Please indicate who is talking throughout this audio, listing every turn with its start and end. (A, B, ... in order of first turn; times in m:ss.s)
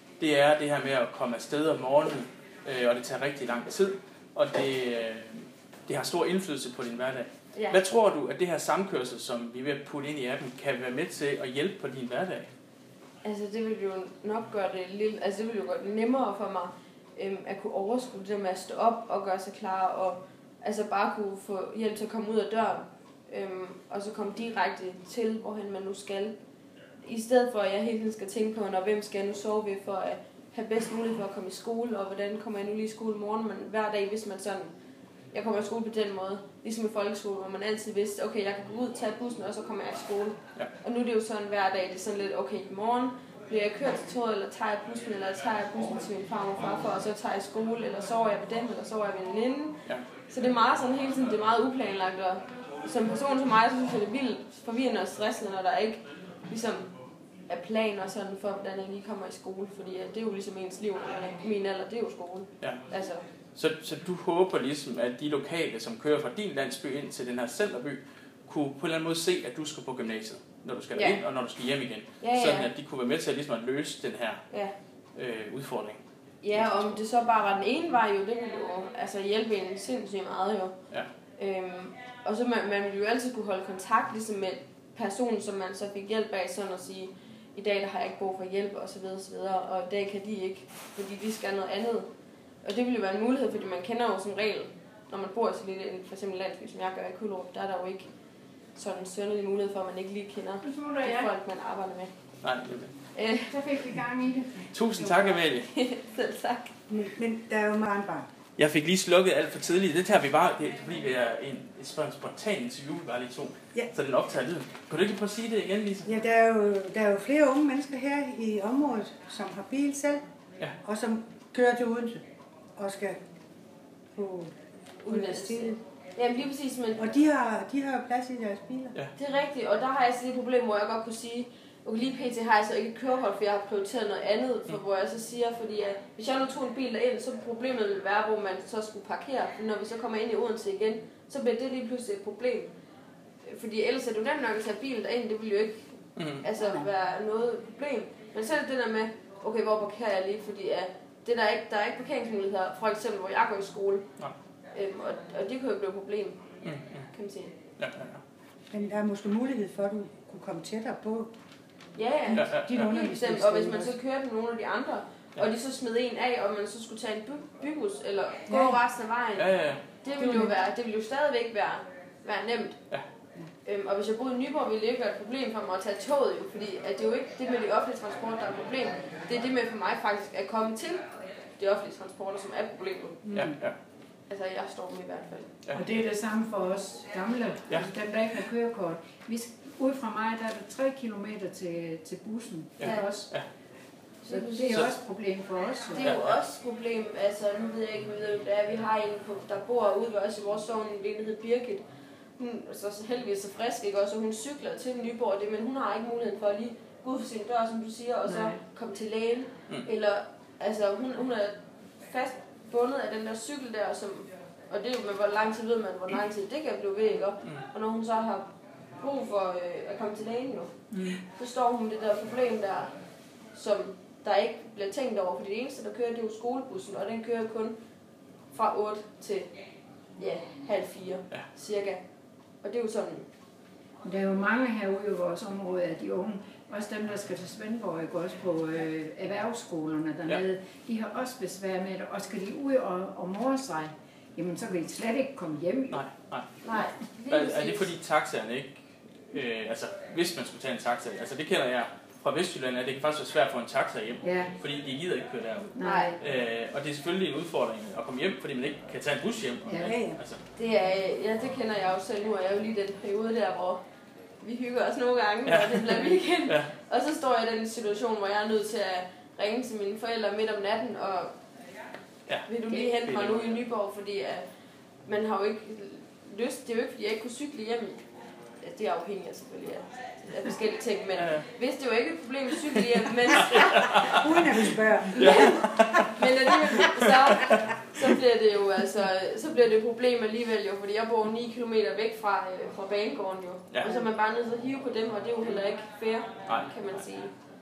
0:00.2-0:12.5 A
0:13.2-0:26.4 B
0:27.0-0:34.7 B
0:35.3-0:56.9 B
0:57.5-1:03.2 B
1:03.6-1:14.4 A
1:10.9-1:11.2 B
1:12.2-1:12.7 B
1:15.2-1:16.0 A
1:16.4-1:20.7 B
1:16.6-1:16.9 A
1:21.4-1:32.1 B
1:32.6-1:38.1 B
1:38.8-1:42.1 B
1:40.6-1:41.3 C
1:42.4-1:42.9 A
1:43.2-1:43.5 B
1:43.5-1:45.4 C
1:44.7-1:45.7 A
1:45.6-1:46.7 B
1:46.9-1:48.3 D
1:48.6-1:56.1 A
1:56.0-2:00.2 D
2:00.8-2:02.2 D
2:02.8-2:03.2 D
2:04.1-2:04.5 D
2:05.0-2:07.0 B
2:05.1-2:05.8 D
2:07.0-2:09.0 D
2:09.2-2:22.7 B
2:23.5-2:25.8 B
2:26.2-2:26.5 A
2:26.4-2:34.0 B
2:26.6-2:26.9 D
2:34.7-2:36.4 B
2:36.6-2:37.1 A
2:37.1-2:37.5 B
2:37.8-2:38.2 A
2:38.7-2:41.3 D
2:42.0-2:49.5 B
2:42.3-2:44.0 D
2:42.3-2:42.9 A
2:48.5-2:48.8 D
2:49.4-2:49.8 A
2:50.0-2:52.8 B
2:50.2-2:50.5 D
2:53.6-3:01.0 B
3:01.6-3:03.3 B
3:03.3-3:03.8 A
3:04.3-3:05.7 B
3:05.7-3:13.3 C
3:12.8-3:13.4 A
3:12.8-3:13.1 B
3:14.2-3:14.9 B
3:14.3-3:16.0 C
3:15.9-3:21.8 B
3:16.0-3:16.4 A
3:22.4-3:31.5 B
3:28.3-3:28.6 C
3:32.1-3:42.9 B
3:40.9-3:41.2 C
3:43.5-3:47.8 B
3:48.5-3:49.5 B
3:50.2-3:52.0 B
3:52.6-3:53.3 B
3:54.0-4:06.0 C
4:05.9-4:06.5 A
4:06.6-4:07.9 B
4:07.3-4:20.4 A
4:14.2-4:14.5 C
4:15.8-4:16.2 C
4:15.8-4:16.2 B
4:19.6-4:20.0 C
4:19.8-4:20.2 D
4:20.6-4:23.8 B
4:24.4-4:31.3 B
4:25.5-4:26.7 A
4:32.3-4:33.6 A
4:32.5-4:34.4 B
4:35.1-4:38.0 B
4:38.6-4:44.1 B
4:41.2-4:41.4 A
4:43.3-4:44.2 A
4:43.8-4:45.7 D
4:45.2-4:57.3 B
4:45.2-4:47.6 A
4:53.7-4:54.0 A